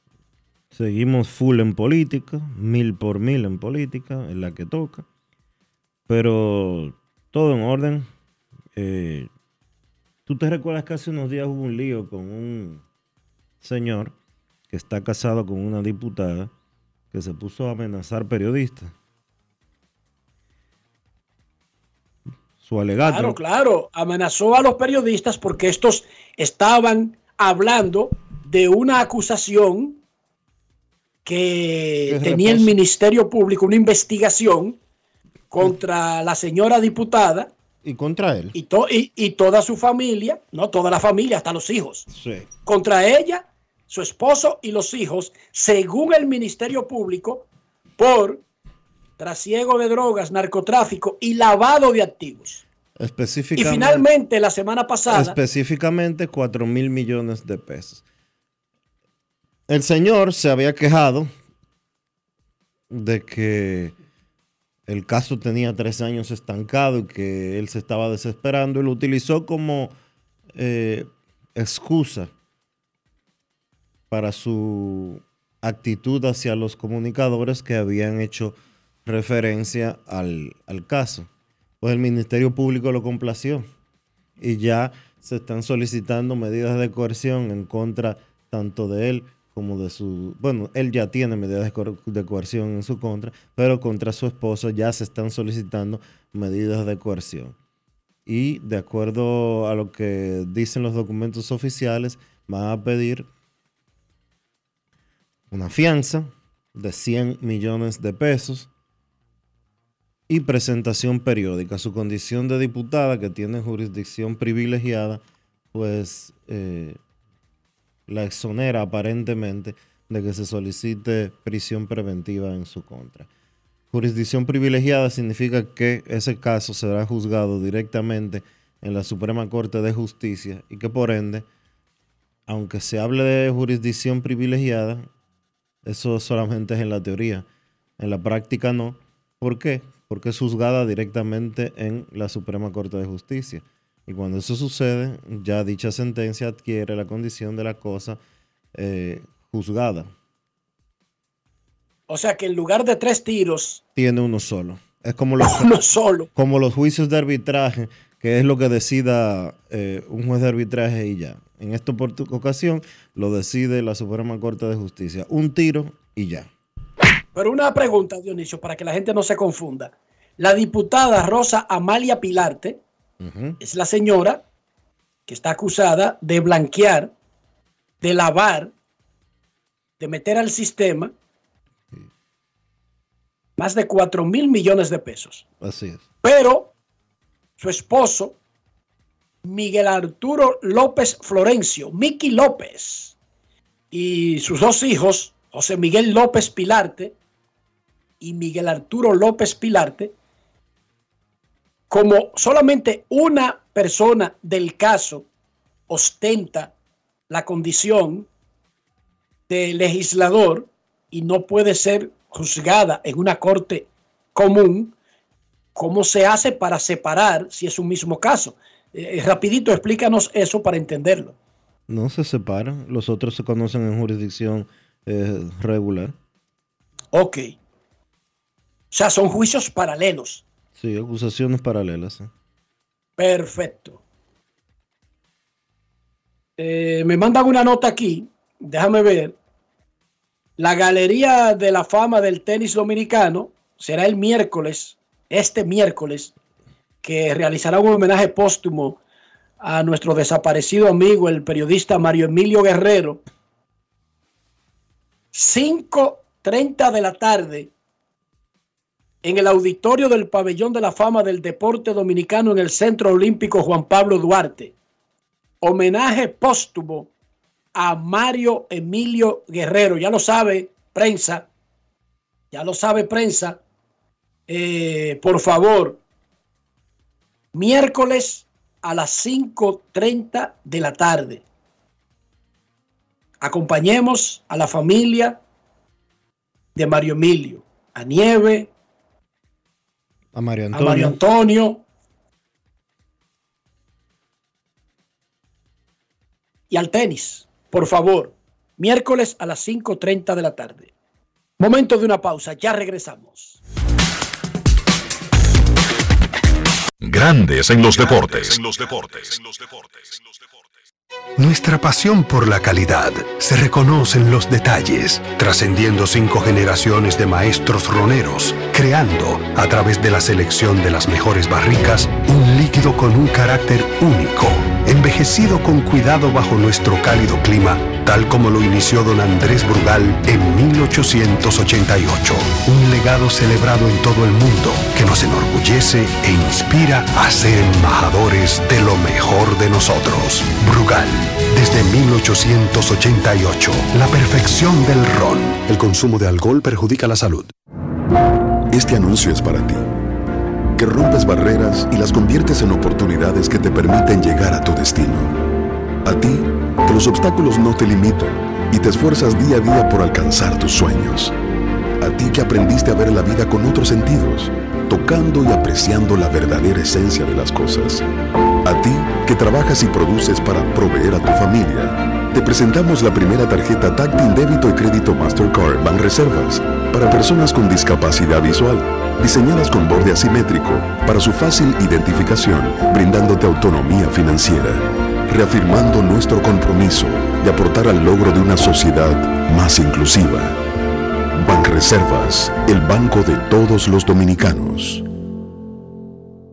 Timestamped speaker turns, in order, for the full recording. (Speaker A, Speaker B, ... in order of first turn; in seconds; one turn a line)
Speaker A: 0.7-5.0
Speaker A: 6.1-8.1
Speaker A: 8.7-9.3
Speaker A: 10.2-12.8
Speaker A: 13.6-14.1
Speaker A: 14.7-16.5
Speaker A: 17.1-18.9
Speaker A: 22.6-23.4
Speaker B: 23.1-30.0
Speaker B: 31.2-34.8
Speaker A: 32.1-32.8
Speaker B: 35.5-37.5
Speaker A: 37.8-38.5
Speaker B: 38.5-42.1
Speaker A: 42.1-42.5
Speaker B: 42.6-47.5
Speaker B: 48.0-48.4
Speaker B: 49.2-52.6
Speaker A: 53.0-54.0
Speaker B: 53.5-55.4
Speaker A: 55.1-58.0
Speaker A: 59.7-61.3
Speaker A: 62.9-63.9
Speaker A: 64.9-69.9
Speaker A: 70.5-72.3
Speaker A: 74.1-81.3
Speaker A: 81.8-83.7
Speaker A: 84.4-97.5
Speaker A: 98.2-103.3
Speaker A: 105.5-108.7
Speaker A: 110.3-115.2
Speaker A: 115.7-117.0
Speaker A: 118.1-123.3
Speaker A: 123.9-131.4
Speaker A: 132.5-135.1
Speaker A: 135.8-137.4
Speaker A: 138.0-148.2
Speaker A: 148.7-150.1
Speaker B: 152.1-153.8
Speaker A: 153.9-155.7
Speaker B: 155.4-156.3
Speaker A: 156.3-166.5
Speaker B: 167.3-172.8
Speaker A: 173.2-173.6
Speaker B: 173.6-174.4
Speaker B: 175.3-177.1
Speaker B: 178.0-178.7
Speaker B: 180.0-181.1
Speaker B: 183.6-185.4
Speaker A: 185.6-186.0
Speaker B: 186.2-186.7
Speaker B: 187.6-188.3
Speaker B: 189.4-193.1
Speaker B: 193.9-197.1
Speaker B: 198.2-200.1
Speaker B: 201.9-205.2
Speaker B: 205.9-206.7
Speaker B: 207.3-208.3
Speaker B: 209.5-214.9
Speaker B: 215.7-221.3
Speaker A: 221.9-226.1
Speaker B: 227.1-227.5
Speaker B: 228.9-230.4
Speaker A: 230.7-232.3
Speaker B: 233.2-234.0
Speaker B: 236.6-239.3
Speaker B: 240.6-246.3
Speaker B: 247.0-249.0
Speaker B: 249.6-253.2
Speaker B: 255.3-257.7
Speaker B: 259.2-264.7
Speaker B: 265.6-267.1
Speaker B: 267.7-271.5
Speaker B: 272.5-273.6
Speaker B: 274.5-276.0
Speaker B: 277.5-281.4
Speaker B: 283.4-285.4
Speaker B: 286.8-288.7
Speaker A: 290.3-291.1
Speaker B: 290.7-291.8
Speaker B: 296.7-300.9
Speaker B: 301.6-303.6
Speaker C: 307.0-310.4
Speaker D: 311.4-347.5
Speaker E: 348.7-349.8
Speaker E: 350.8-355.3
Speaker E: 356.0-361.3
Speaker E: 362.0-368.0
Speaker E: 368.6-390.6
Speaker E: 391.4-395.0